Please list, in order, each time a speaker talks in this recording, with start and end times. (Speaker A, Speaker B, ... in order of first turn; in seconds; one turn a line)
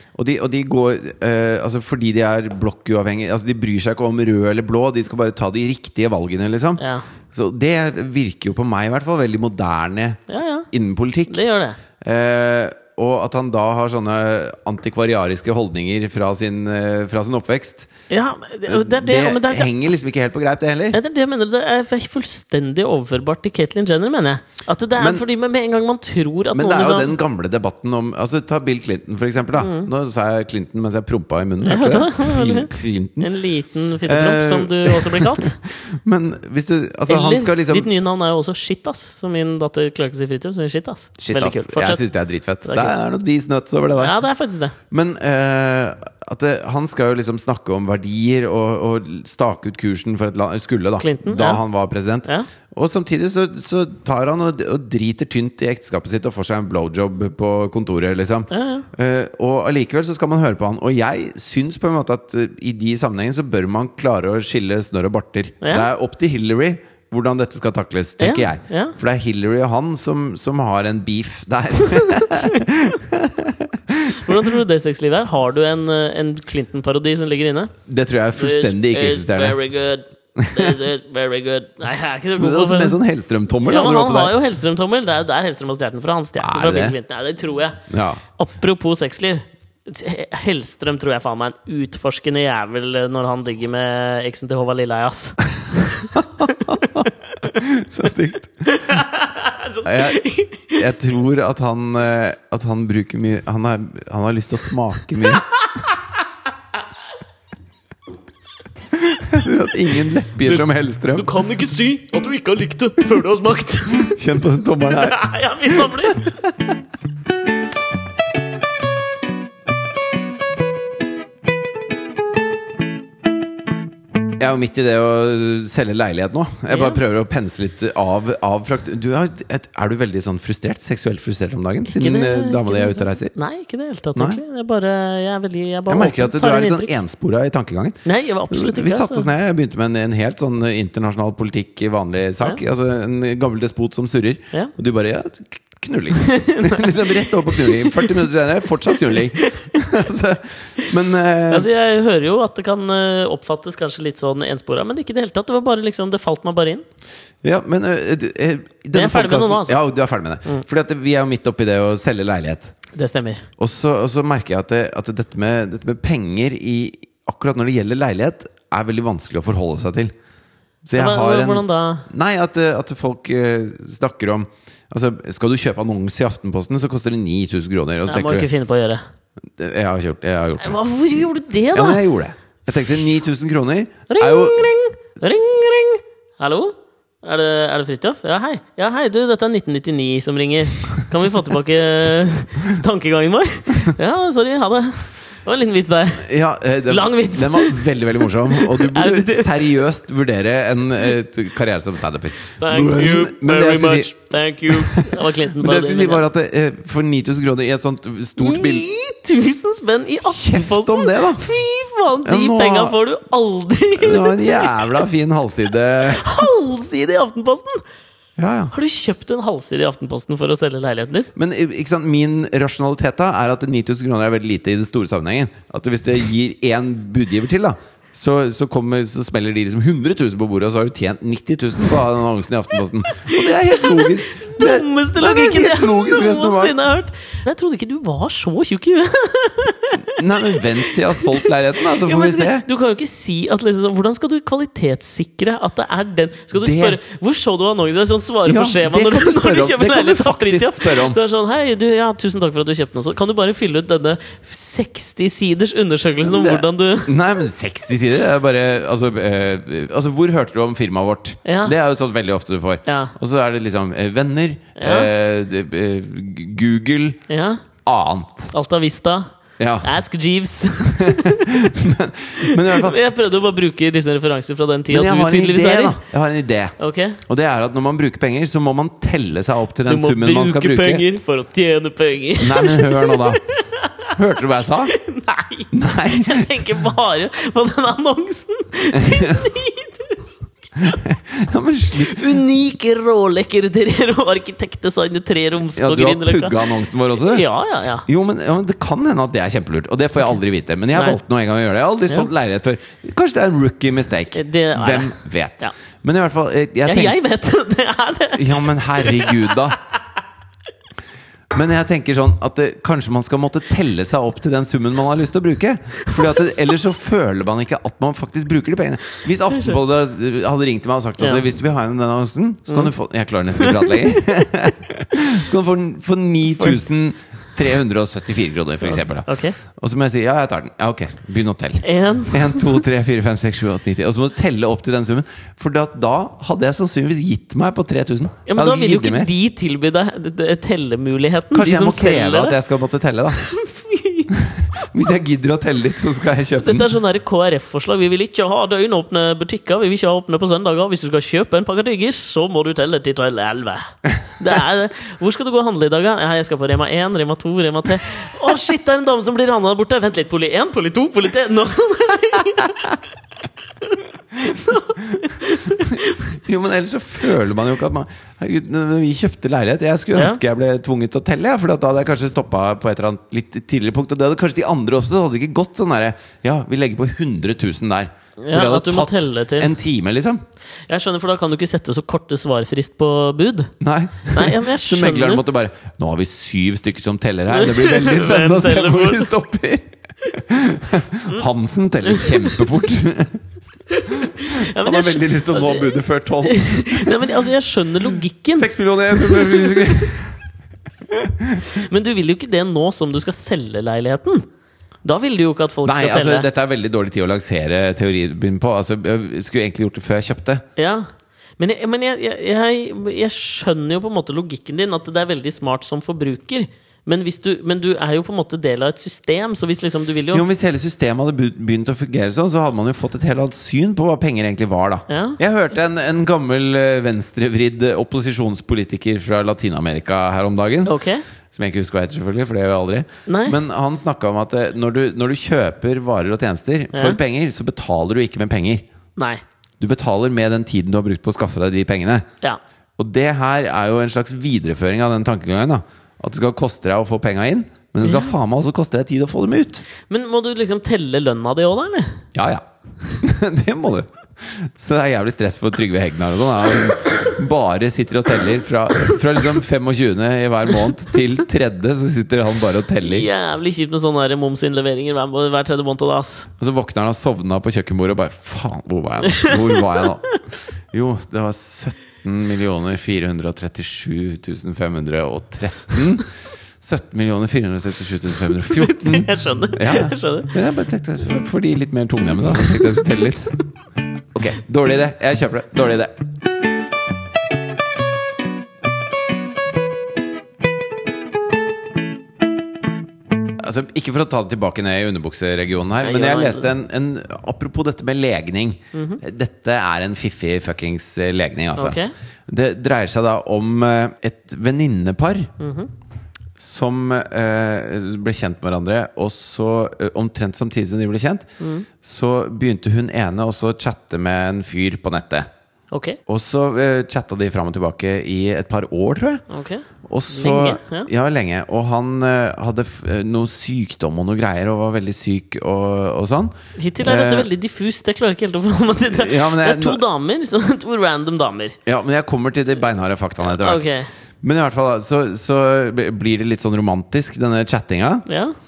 Speaker A: 0.1-6.8
Speaker B: 6.8-7.0
Speaker A: 7.3-11.4
Speaker B: 10.3-10.7
Speaker B: 11.3-11.8
Speaker A: 12.0-17.9
Speaker B: 18.1-19.7
Speaker A: 18.7-21.0
Speaker B: 20.9-27.1
Speaker A: 25.0-25.2
Speaker A: 26.5-33.3
Speaker B: 29.6-29.9
Speaker B: 31.6-35.6
Speaker A: 34.0-37.9
Speaker B: 37.1-42.0
Speaker A: 41.2-44.1
Speaker B: 42.6-43.0
Speaker B: 44.0-44.7
Speaker A: 44.9-74.4
Speaker B: 51.0-51.6
Speaker B: 58.5-58.9
Speaker B: 65.6-65.9
Speaker B: 68.2-68.9
Speaker B: 72.2-72.6
Speaker B: 74.1-77.7
Speaker A: 77.9-79.6
Speaker B: 78.3-83.0
Speaker A: 80.4-80.7
Speaker A: 82.3-84.3
Speaker B: 83.6-87.8
Speaker A: 86.4-87.0
Speaker A: 87.9-88.2
Speaker B: 88.3-97.6
Speaker A: 96.1-98.7
Speaker B: 98.7-100.8
Speaker A: 99.8-105.5
Speaker A: 109.0-111.3
Speaker B: 110.4-114.2
Speaker A: 113.9-115.2
Speaker B: 114.8-116.3
Speaker A: 115.7-116.5
Speaker A: 124.4-133.3
Speaker B: 126.7-127.0
Speaker B: 131.9-136.9
Speaker A: 134.2-134.4
Speaker A: 135.9-151.7
Speaker B: 138.0-139.3
Speaker B: 146.2-148.2
Speaker B: 149.3-149.8
Speaker B: 151.5-156.8
Speaker A: 157.4-162.7
Speaker B: 158.9-159.8
Speaker B: 162.9-163.4
Speaker A: 163.6-170.1
Speaker A: 170.8-178.5
Speaker B: 171.0-172.1
Speaker B: 178.1-179.0
Speaker A: 179.6-180.8
Speaker B: 180.6-182.0
Speaker A: 181.7-184.7
Speaker B: 184.1-196.3
Speaker A: 196.2-204.1
Speaker B: 196.9-197.8
Speaker B: 198.5-199.5
Speaker B: 202.6-206.2
Speaker A: 204.7-208.8
Speaker B: 208.4-215.1
Speaker A: 210.2-211.4
Speaker A: 212.2-212.9
Speaker A: 214.0-216.5
Speaker B: 216.0-217.8
Speaker A: 218.4-218.7
Speaker B: 218.7-221.3
Speaker A: 221.3-236.8
Speaker B: 233.1-257.2
Speaker A: 240.1-242.7
Speaker A: 246.6-247.0
Speaker A: 248.4-251.2
Speaker A: 256.2-267.2
Speaker B: 261.4-261.7
Speaker B: 262.9-263.1
Speaker B: 264.8-265.1
Speaker B: 267.3-267.6
Speaker A: 267.8-268.5
Speaker B: 268.5-271.7
Speaker A: 269.6-269.9
Speaker A: 270.9-273.0
Speaker B: 272.4-276.0
Speaker A: 274.9-281.1
Speaker B: 276.8-277.2
Speaker B: 279.9-284.1
Speaker A: 282.4-283.4
Speaker A: 284.1-284.9
Speaker B: 284.9-291.0
Speaker A: 285.7-286.6
Speaker A: 288.9-289.5
Speaker A: 290.8-292.3
Speaker B: 291.9-298.0
Speaker A: 295.7-297.4
Speaker A: 298.1-307.2
Speaker B: 304.3-305.7
Speaker B: 306.9-309.6
Speaker A: 308.4-309.8
Speaker A: 311.5-339.3
Speaker B: 321.2-321.4
Speaker B: 323.6-324.2
Speaker B: 328.8-329.6
Speaker B: 331.8-332.8
Speaker B: 338.4-342.6
Speaker A: 341.5-343.4
Speaker B: 343.4-344.3
Speaker A: 344.3-346.9
Speaker B: 346.6-363.0
Speaker B: 363.8-366.4
Speaker A: 365.9-380.4
Speaker B: 370.1-370.4
Speaker B: 378.4-379.7
Speaker B: 380.9-383.7
Speaker A: 383.8-393.4
Speaker B: 384.3-385.4
Speaker B: 387.5-389.3
Speaker B: 392.1-392.5
Speaker B: 393.9-399.9
Speaker A: 394.1-397.2
Speaker A: 398.5-400.4
Speaker A: 401.1-401.6
Speaker B: 401.6-404.4
Speaker B: 405.0-406.5
Speaker A: 405.8-410.6
Speaker B: 410.8-411.1
Speaker B: 411.6-420.4
Speaker A: 420.3-430.9
Speaker B: 425.1-425.4
Speaker B: 430.8-431.2
Speaker A: 431.5-438.8
Speaker B: 433.3-433.6
Speaker B: 436.9-437.2
Speaker A: 439.8-442.2
Speaker A: 443.0-449.8
Speaker B: 448.0-448.3
Speaker B: 450.0-452.2
Speaker A: 452.3-452.6
Speaker A: 453.2-463.3
Speaker B: 463.0-466.5
Speaker A: 466.6-470.4
Speaker B: 469.3-470.4
Speaker A: 470.9-476.3
Speaker A: 476.8-483.6
Speaker B: 478.6-480.5
Speaker B: 482.6-483.0
Speaker A: 484.3-486.1
Speaker A: 493.6-505.5
Speaker B: 496.0-496.7
Speaker B: 498.9-499.2
Speaker B: 501.8-502.1
Speaker B: 505.6-505.9
Speaker A: 506.6-515.5
Speaker B: 511.6-511.9
Speaker B: 515.9-516.2
Speaker A: 516.3-519.4
Speaker B: 519.5-521.1
Speaker A: 520.0-527.5
Speaker B: 526.8-531.8
Speaker A: 529.1-530.0
Speaker A: 531.9-533.8
Speaker B: 533.5-534.1
Speaker A: 534.4-538.2
Speaker B: 538.3-538.5